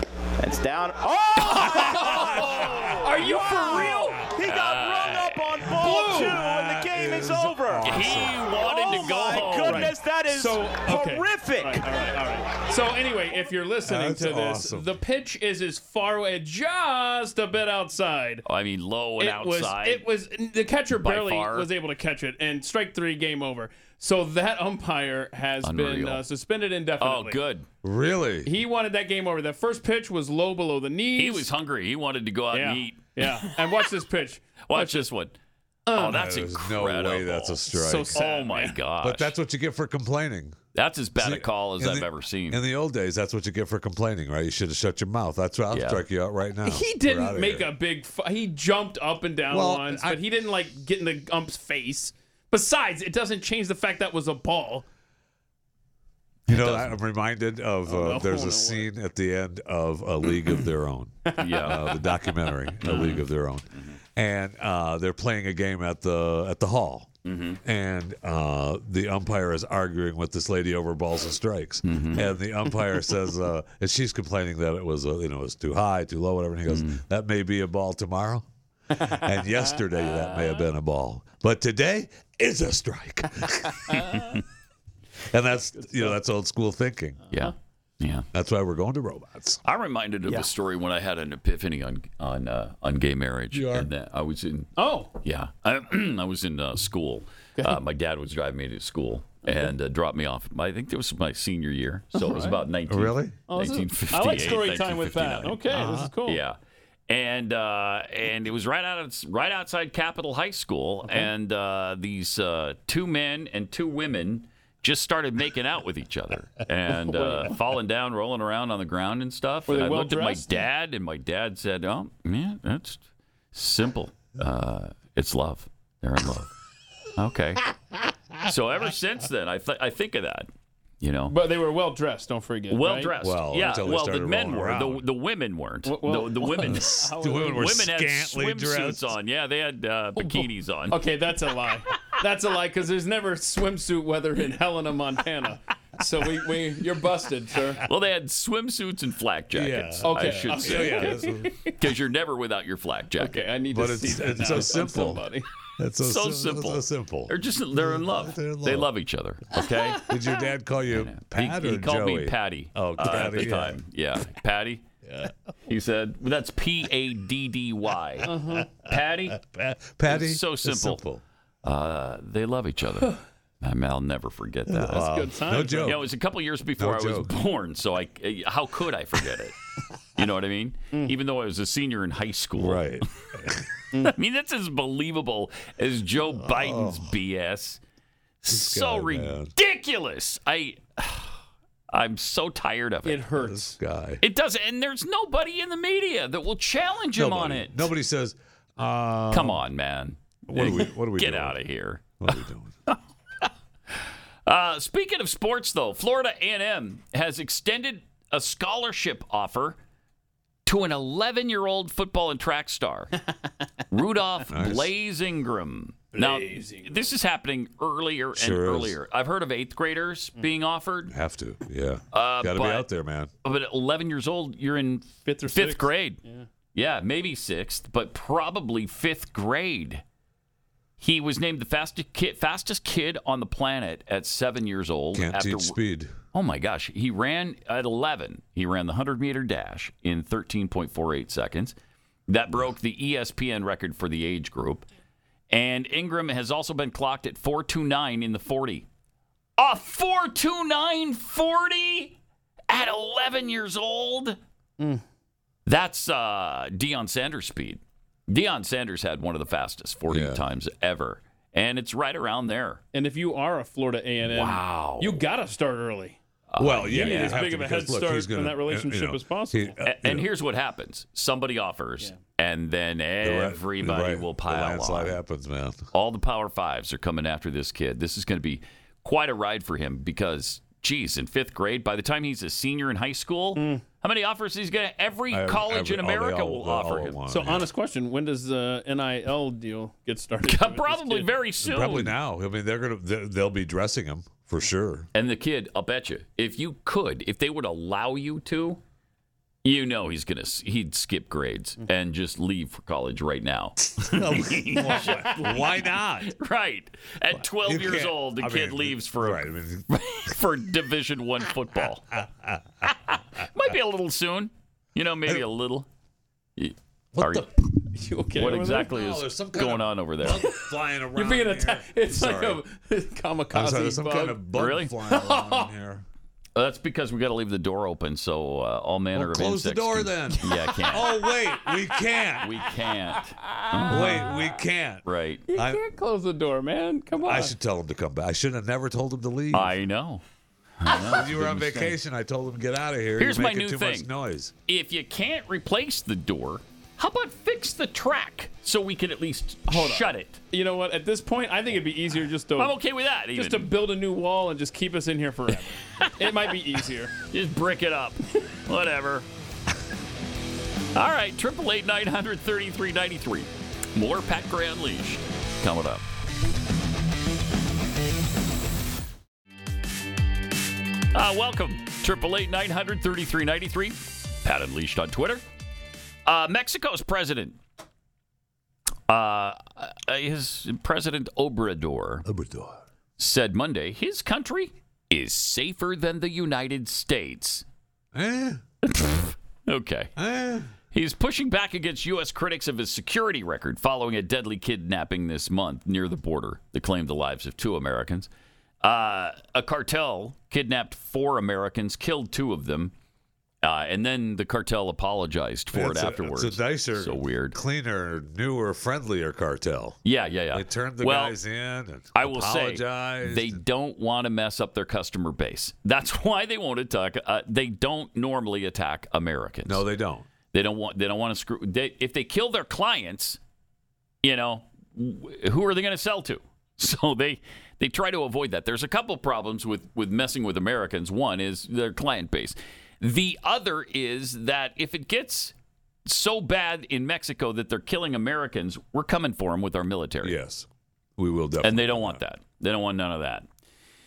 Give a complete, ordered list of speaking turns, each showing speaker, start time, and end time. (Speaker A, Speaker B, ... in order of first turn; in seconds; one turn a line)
Speaker A: 0.4-2.2
Speaker B: 1.5-4.3
Speaker C: 2.2-3.9
Speaker D: 2.4-3.0
Speaker D: 3.6-4.3
Speaker A: 3.8-8.0
Speaker C: 4.4-5.7
Speaker D: 5.7-8.5
Speaker B: 5.8-6.4
Speaker C: 7.8-10.0
Speaker A: 8.6-11.9
Speaker B: 8.9-18.4
Speaker D: 13.9-14.9
Speaker C: 18.4-20.1
Speaker B: 19.2-27.4
Speaker C: 20.9-21.7
Speaker C: 25.6-26.2
Speaker C: 27.0-27.7
Speaker D: 27.8-28.5
Speaker B: 28.4-31.5
Speaker C: 31.2-33.5
Speaker B: 32.5-35.1
Speaker C: 34.7-35.4
Speaker B: 35.9-36.3
Speaker C: 36.0-39.3
Speaker D: 36.1-38.2
Speaker B: 37.7-38.8
Speaker D: 39.0-40.6
Speaker C: 40.8-42.6
Speaker D: 41.2-47.7
Speaker C: 45.7-46.0
Speaker B: 46.6-54.9
Speaker D: 49.5-50.2
Speaker C: 56.5-57.0
Speaker D: 56.5-67.1
Speaker B: 57.9-58.9
Speaker B: 61.3-62.1
Speaker C: 61.4-62.0
Speaker C: 62.8-63.2
Speaker C: 67.2-67.6
Speaker D: 67.6-84.0
Speaker C: 71.8-72.3
Speaker C: 76.7-77.0
Speaker B: 79.0-80.6
Speaker B: 83.9-84.4
Speaker D: 85.3-87.3
Speaker B: 85.7-86.2
Speaker C: 87.3-88.3
Speaker D: 88.3-89.6
Speaker C: 89.7-105.6
Speaker D: 93.5-93.9
Speaker B: 94.8-95.1
Speaker B: 102.2-102.6
Speaker D: 102.9-103.4
Speaker B: 103.5-106.4
Speaker D: 105.7-106.1
Speaker C: 106.2-106.6
Speaker C: 107.1-126.5
Speaker B: 117.1-117.5
Speaker B: 119.7-120.6
Speaker C: 127.2-127.6
Speaker C: 128.4-130.5
Speaker C: 131.0-131.4
Speaker B: 131.3-133.1
Speaker C: 132.7-141.0
Speaker D: 133.2-135.0
Speaker B: 135.8-137.7
Speaker D: 136.6-139.2
Speaker B: 140.2-147.8
Speaker C: 147.8-153.5
Speaker D: 149.5-151.6
Speaker B: 150.0-151.8
Speaker B: 153.2-155.5
Speaker D: 153.7-155.2
Speaker D: 155.8-158.9
Speaker C: 156.0-160.1
Speaker D: 160.0-163.8
Speaker C: 160.9-164.8
Speaker D: 165.1-165.3
Speaker C: 165.7-168.3
Speaker B: 168.2-168.7
Speaker D: 168.5-171.2
Speaker C: 168.8-169.4
Speaker C: 170.1-171.0
Speaker C: 171.6-175.1
Speaker D: 174.7-176.1
Speaker B: 174.9-176.0
Speaker C: 175.8-179.6
Speaker D: 176.8-177.3
Speaker C: 180.2-182.9
Speaker D: 182.6-183.6
Speaker C: 184.1-187.8
Speaker D: 186.4-187.2
Speaker C: 188.4-191.4
Speaker D: 188.5-189.5
Speaker C: 191.9-193.3
Speaker B: 193.1-193.8
Speaker D: 193.3-194.2
Speaker C: 194.2-197.9
Speaker D: 197.1-199.6
Speaker C: 199.3-203.5
Speaker D: 200.5-201.6
Speaker D: 202.2-202.7
Speaker C: 204.5-209.8
Speaker C: 210.7-213.1
Speaker C: 213.9-221.1
Speaker D: 214.5-214.9
Speaker B: 216.1-217.1
Speaker D: 218.3-219.0
Speaker D: 221.1-223.3
Speaker C: 222.1-222.9
Speaker C: 223.4-226.2
Speaker B: 225.2-226.5
Speaker C: 226.8-230.0
Speaker C: 231.0-235.8
Speaker D: 235.1-236.2
Speaker C: 236.3-241.7
Speaker C: 242.3-244.8
Speaker C: 245.5-248.9
Speaker C: 249.6-252.2
Speaker C: 252.7-254.4
Speaker B: 254.8-255.0
Speaker C: 255.7-262.8
Speaker D: 260.1-260.4
Speaker B: 262.9-266.2
Speaker C: 264.2-265.2
Speaker C: 266.5-267.5
Speaker D: 266.6-270.3
Speaker B: 266.9-269.8
Speaker C: 269.9-275.2
Speaker D: 273.2-275.9
Speaker C: 275.9-287.2
Speaker B: 283.6-283.8
Speaker D: 285.3-287.7
Speaker B: 287.3-291.3
Speaker C: 290.4-292.1
Speaker D: 291.6-295.1
Speaker C: 295.1-298.8
Speaker C: 299.6-312.1
Speaker D: 303.9-306.3
Speaker D: 307.3-309.9
Speaker D: 312.1-312.6
Speaker C: 313.1-315.9
Speaker C: 316.6-317.5
Speaker D: 317.1-317.5
Speaker B: 318.0-318.9
Speaker C: 318.4-320.5
Speaker D: 318.6-322.6
Speaker B: 320.3-320.6
Speaker B: 321.1-324.5
Speaker D: 323.5-326.0
Speaker C: 324.5-325.0
Speaker B: 325.1-325.7
Speaker C: 326.6-331.2
Speaker D: 329.1-332.5
Speaker B: 330.8-331.8
Speaker C: 332.4-334.3
Speaker B: 333.6-334.3
Speaker D: 333.9-335.8
Speaker C: 335.1-335.4
Speaker B: 335.5-337.6
Speaker D: 337.2-339.7
Speaker C: 339.5-340.2
Speaker C: 340.8-342.0
Speaker D: 340.9-344.5
Speaker C: 343.2-344.1
Speaker C: 344.7-350.4
Speaker B: 349.7-352.7
Speaker C: 352.6-353.7
Speaker B: 353.4-357.1
Speaker C: 356.0-356.5
Speaker C: 357.3-359.3
Speaker C: 360.9-366.0
Speaker C: 371.1-375.4
Speaker C: 376.2-377.6
Speaker C: 379.1-382.3
Speaker D: 382.2-382.8
Speaker C: 383.2-387.6
Speaker D: 388.1-388.6
Speaker C: 388.8-390.1
Speaker D: 390.2-390.8
Speaker C: 390.9-398.3
Speaker C: 398.8-402.9
Speaker C: 403.6-407.6
Speaker D: 405.7-410.0
Speaker C: 410.1-411.4
Speaker D: 410.5-413.6
Speaker C: 412.1-419.8
Speaker D: 419.6-420.3
Speaker C: 420.5-423.4
Speaker C: 424.2-435.5
Speaker C: 436.1-440.4
Speaker D: 440.2-440.7
Speaker D: 441.2-442.2
Speaker C: 441.6-443.5